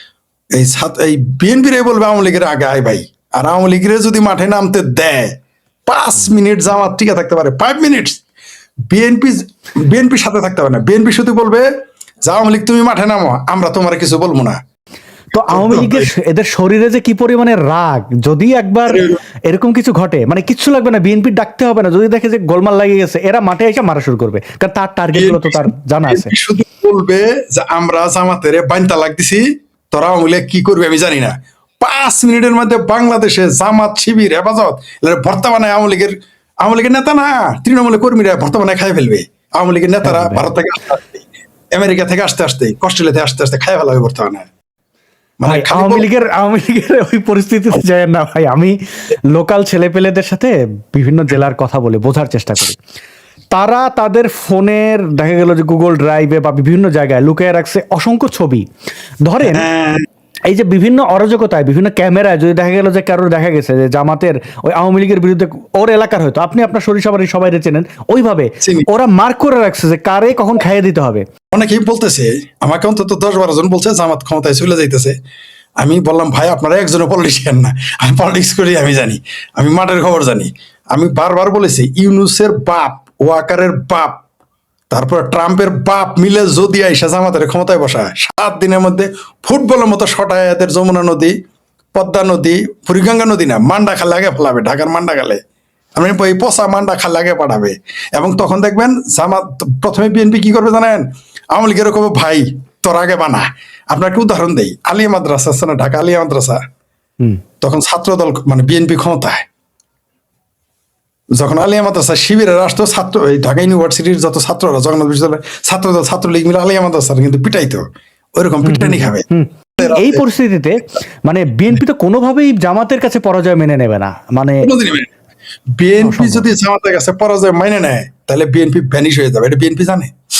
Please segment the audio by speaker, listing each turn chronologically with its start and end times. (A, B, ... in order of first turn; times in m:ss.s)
0:00.5-0:05.3 A
0:05.9-0:08.2 A
0:08.9-0:11.7 A
0:12.2-0:14.6 A
0:15.3-0:26.3 B
0:15.3-0:16.1 A
0:18.9-0:19.2 A
0:25.1-0:44.5 A
0:40.0-0:40.5 B
0:45.4-0:46.1 A
0:45.4-0:52.8 B
0:53.5-0:58.6 B
0:59.2-0:59.6 B
0:59.4-1:00.0 A
1:00.5-1:11.2 B
1:08.6-1:08.9 A
1:11.5-1:15.1 A
1:15.8-1:24.2 A
1:24.9-1:31.3 A
1:31.9-1:35.4 A
1:36.0-1:46.6 A
1:47.6-1:49.4 A
1:51.3-1:57.8 A
1:58.4-1:59.3 A
1:58.6-2:04.7 B
1:59.8-2:00.2 A
2:04.6-2:05.1 A
2:05.8-2:10.1 A
2:06.0-2:06.4 B